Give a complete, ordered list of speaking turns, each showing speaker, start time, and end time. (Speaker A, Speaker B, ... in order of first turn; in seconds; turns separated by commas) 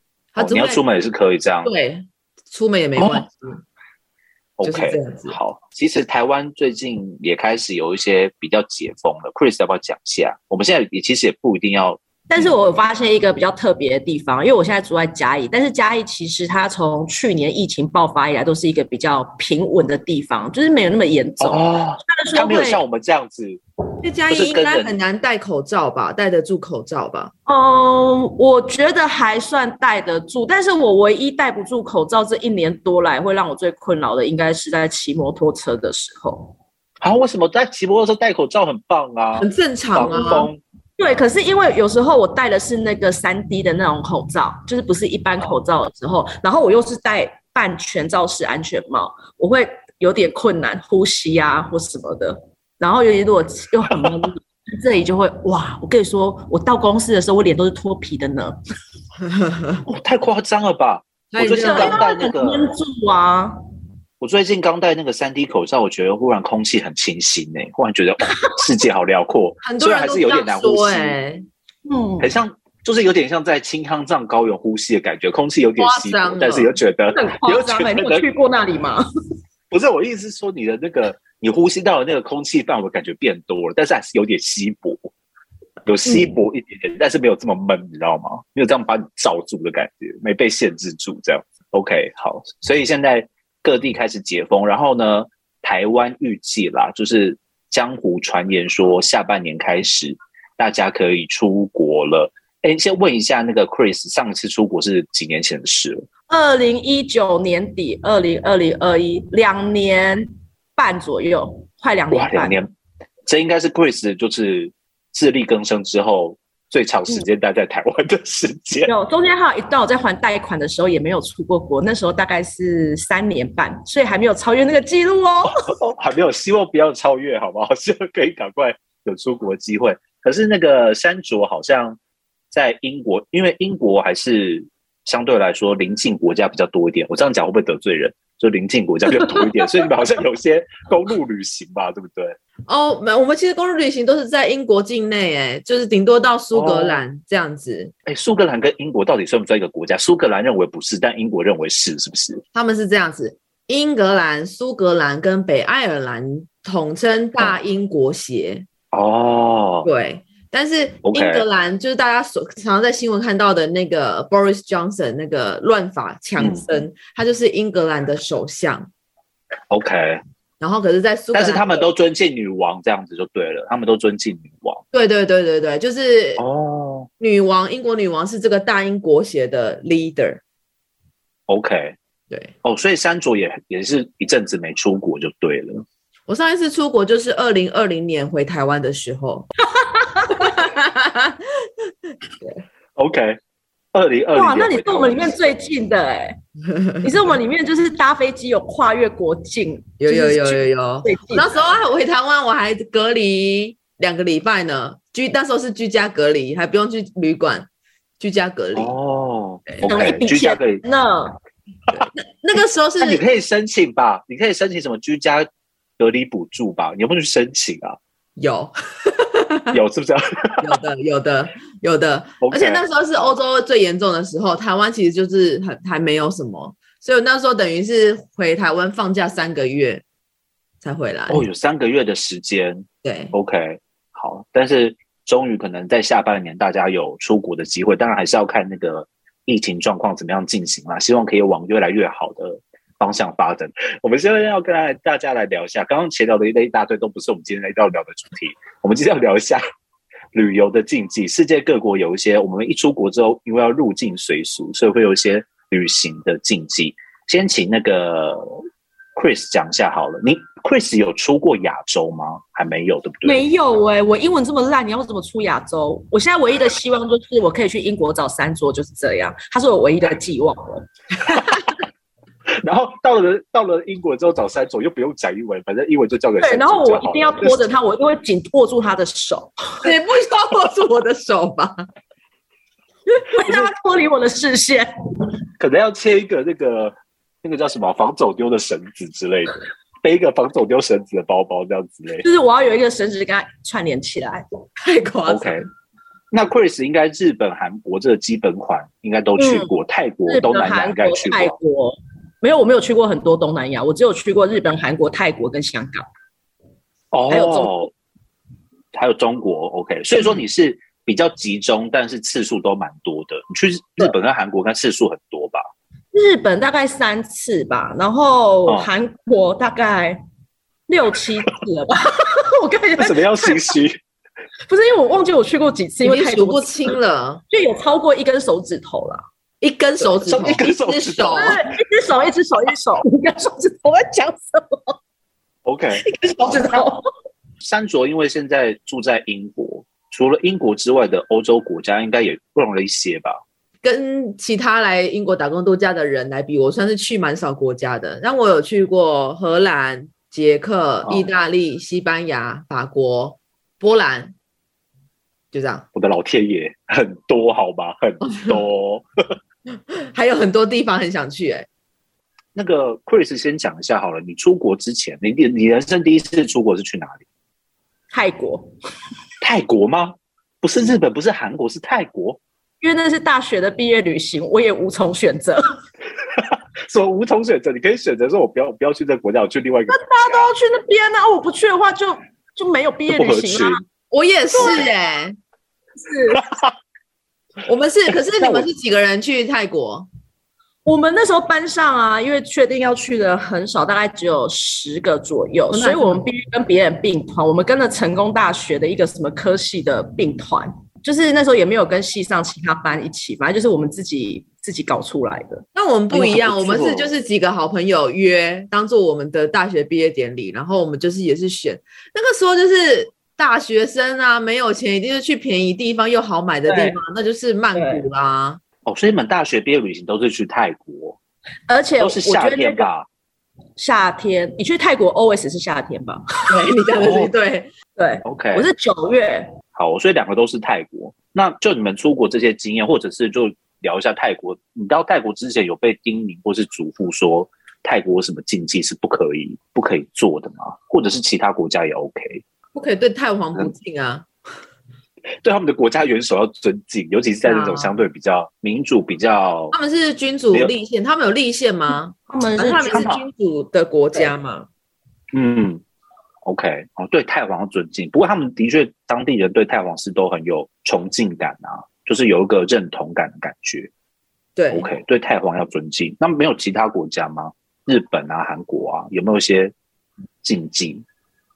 Speaker A: 0.3-0.8, Speaker B: 0.4-1.7, Speaker A: 1.6-3.6, Speaker B: 3.0-3.2, Speaker B: 4.6-12.5, Speaker A: 4.6-5.4, Speaker C: 12.3-22.8, Speaker B: 21.4-23.6, Speaker A: 24.0-27.3, Speaker B: 24.3-25.0, Speaker C: 27.5-36.5, Speaker B: 37.0-40.6, Speaker A: 39.4-40.5, Speaker C: 41.0-58.5, Speaker A: 59.3-59.8, Speaker B: 59.8-62.6, Speaker A: 61.3-62.1, Speaker C: 61.6-63.5, Speaker B: 64.2-71.2, Speaker A: 69.6-71.5, Speaker C: 71.8-72.3, Speaker B: 72.2-78.2, Speaker A: 75.8-76.7, Speaker C: 77.1-79.0, Speaker B: 79.7-85.1, Speaker B: 85.8-106.1, Speaker C: 106.3-110.2, Speaker C: 110.8-112.5, Speaker B: 112.1-112.7, Speaker B: 113.3-118.9, Speaker C: 118.9-125.5, Speaker B: 125.7-132.0, Speaker B: 132.5-142.4, Speaker A: 142.7-147.9, Speaker B: 146.5-147.0, Speaker B: 148.1-152.4, Speaker A: 152.5-158.7, Speaker B: 158.9-159.9, Speaker A: 159.8-168.9, Speaker B: 161.0-161.5, Speaker B: 166.4-166.7, Speaker B: 169.7-170.2, Speaker A: 170.6-171.9, Speaker B: 171.3-174.8, Speaker A: 174.9-176.4, Speaker B: 176.4-177.1, Speaker A: 177.2-180.4, Speaker B: 181.5-181.9, Speaker B: 182.6-185.8, Speaker A: 186.3-189.5, Speaker A: 190.4-191.7, Speaker B: 192.9-193.4, Speaker B: 193.9-195.4, Speaker C: 194.3-196.3, Speaker A: 196.8-197.1, Speaker C: 197.0-201.5, Speaker A: 200.0-207.7, Speaker A: 208.2-208.9, Speaker B: 208.7-210.8, Speaker A: 209.7-210.1, Speaker C: 209.8-211.3, Speaker A: 211.9-213.2, Speaker B: 213.0-215.5, Speaker B: 216.0-218.0, Speaker A: 218.4-219.8, Speaker B: 219.7-220.8, Speaker A: 220.6-230.0, Speaker B: 222.4-223.4, Speaker A: 230.8-231.4, Speaker B: 231.3-249.6, Speaker A: 233.0-233.3, Speaker B: 250.3-258.6, Speaker B: 259.1-263.4, Speaker C: 263.2-270.8, Speaker B: 272.6-277.6, Speaker C: 276.4-279.5, Speaker A: 279.8-281.9, Speaker C: 283.2-284.9, Speaker B: 283.4-283.7, Speaker B: 285.6-292.2, Speaker C: 292.2-294.4, Speaker A: 294.8-295.6, Speaker B: 295.3-295.6, Speaker B: 296.3-301.6, Speaker C: 299.4-299.7, Speaker C: 300.3-306.1, Speaker B: 307.1-307.9, Speaker C: 307.3-307.8, Speaker B: 308.9-315.6, Speaker C: 316.1-320.2, Speaker C: 320.9-323.2, Speaker B: 323.0-324.0, Speaker C: 324.7-326.7, Speaker A: 326.0-327.4, Speaker C: 327.5-329.2, Speaker A: 329.6-331.6, Speaker B: 330.2-331.5, Speaker C: 331.4-334.9, Speaker B: 335.6-336.0, Speaker C: 336.0-337.0, Speaker B: 337.6-343.4, Speaker A: 343.8-354.3, Speaker B: 351.0-351.3, Speaker A: 355.5-355.9, Speaker B: 355.9-359.0, Speaker A: 360.1-361.7, Speaker B: 362.5-367.2, Speaker C: 368.1-368.7, Speaker B: 369.4-372.4, Speaker C: 372.8-375.6, Speaker B: 376.4-380.5, Speaker C: 379.9-383.8, Speaker B: 383.1-383.8, Speaker A: 384.1-385.4, Speaker B: 384.6-384.9, Speaker C: 386.0-386.4, Speaker B: 386.3-386.7, Speaker A: 387.6-390.1, Speaker B: 388.1-388.7, Speaker C: 390.9-405.6, Speaker A: 395.7-396.2, Speaker A: 405.7-418.6, Speaker B: 406.1-407.1, Speaker C: 416.7-417.0, Speaker C: 417.7-418.0, Speaker B: 418.8-421.2, Speaker C: 421.7-422.9, Speaker B: 422.0-423.1, Speaker C: 423.8-426.2, Speaker A: 426.5-427.7, Speaker B: 426.9-427.3, Speaker C: 428.0-429.5, Speaker B: 428.2-428.7, Speaker B: 429.7-442.4, Speaker A: 442.7-444.2, Speaker B: 445.4-449.7, Speaker A: 447.4-447.9, Speaker A: 449.7-454.7, Speaker C: 452.3-453.0, Speaker B: 452.9-453.2, Speaker B: 455.3-455.8, Speaker B: 456.4-463.9, Speaker A: 464.6-464.9, Speaker B: 464.7-469.7, Speaker B: 470.4-471.0